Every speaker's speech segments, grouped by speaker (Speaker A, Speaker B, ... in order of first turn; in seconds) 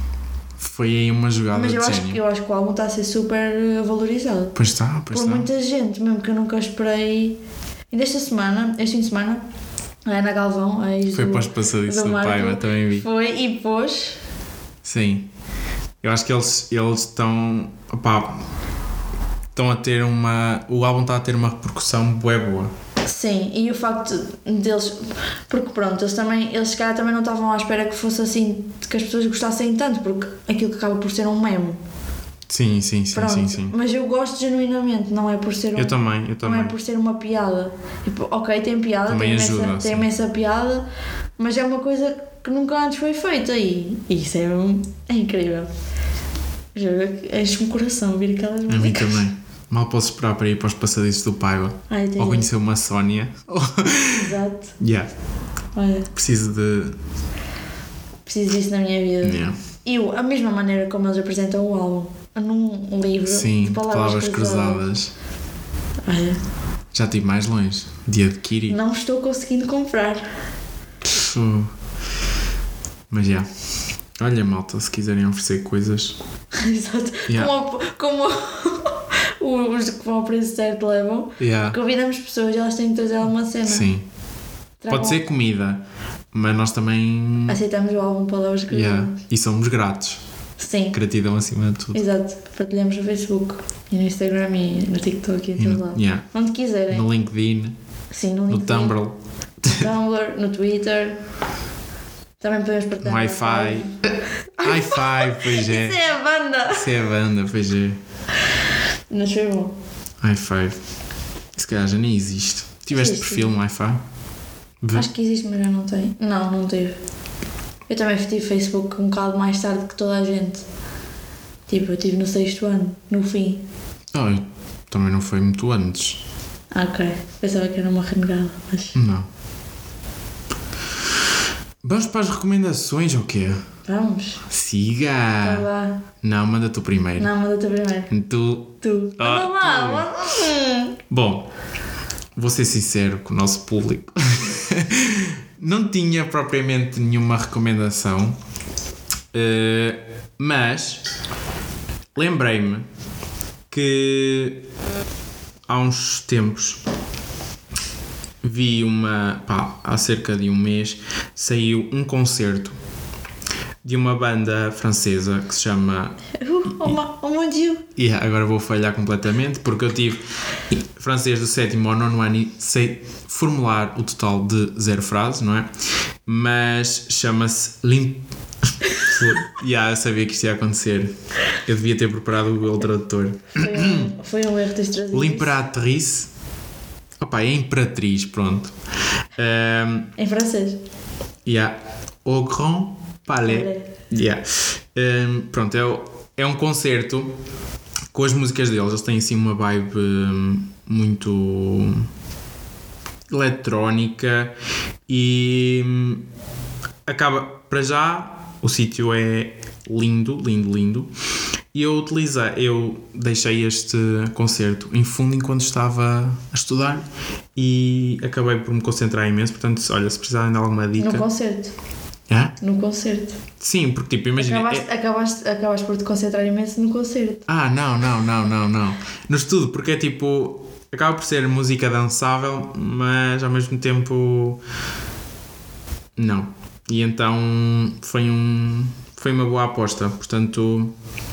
Speaker A: 0.6-2.2, 4.5-5.5, 11.1-13.1, 14.8-15.3, 16.0-18.4, 19.6-22.7, 32.5-33.8, 35.8-36.7, 39.1-40.1, 48.7-55.1, 56.1-57.0, 59.2-59.6, 63.3-65.1, 66.9-68.8, 71.0-71.7, 73.1-73.5, 74.2-76.2, 81.4-81.8, 83.7-84.0, 84.9-87.6, 88.7-90.2, 90.9-92.0, 95.6-96.3, 96.9-97.8, 98.5-99.9, 103.0-103.9, 104.6-106.0, 106.7-108.0, 110.2-110.8, 111.5-114.0, 114.8-115.1, 124.1-126.2, 128.9-129.3, 131.8-133.7, 134.5-135.7, 136.2-137.3, 138.1-140.1, 141.1-141.5, 142.4-148.4, 149.3-151.1, 152.1-152.8, 153.7-154.6, 155.7-156.8, 158.4-162.8, 163.8-167.0, 168.0-175.7, 176.3-178.2, 178.9-184.1, 185.1-186.3, 187.2-188.7, 189.4-190.1, 191.4-197.3, 198.1-202.1, 203.3-204.5, 205.1-206.3, 207.1-211.1, 211.7-217.1, 217.6-221.2, 222.3-222.5, 223.6-224.9, 227.5-234.6, 236.2-240.9
Speaker B: 1.5-4.6, 5.1-7.4, 7.9-9.4, 10.1-14.2, 23.1-31.8, 33.1-40.9, 41.4-45.7, 46.8-49.2, 51.9-52.5, 54.1-54.7, 55.8-56.1, 58.3-64.8, 66.1-66.4, 68.7-70.3, 76.5-83.9, 84.8-85.2, 87.5-89.2, 90.6-91.0, 91.9-97.1, 98.1-99.0, 99.7-101.2, 102.4-104.0, 104.6-106.9, 109.1-109.7, 112.9-113.5, 114.9-117.0, 117.9-120.6, 121.7-123.6, 126.7-129.0, 133.9-134.4, 135.4-136.1, 137.2-138.1, 138.8-141.0, 166.3-167.9, 183.5-185.6, 190.2-190.8, 193.4-193.9, 221.0-221.7, 222.6-223.4, 224.4-227.5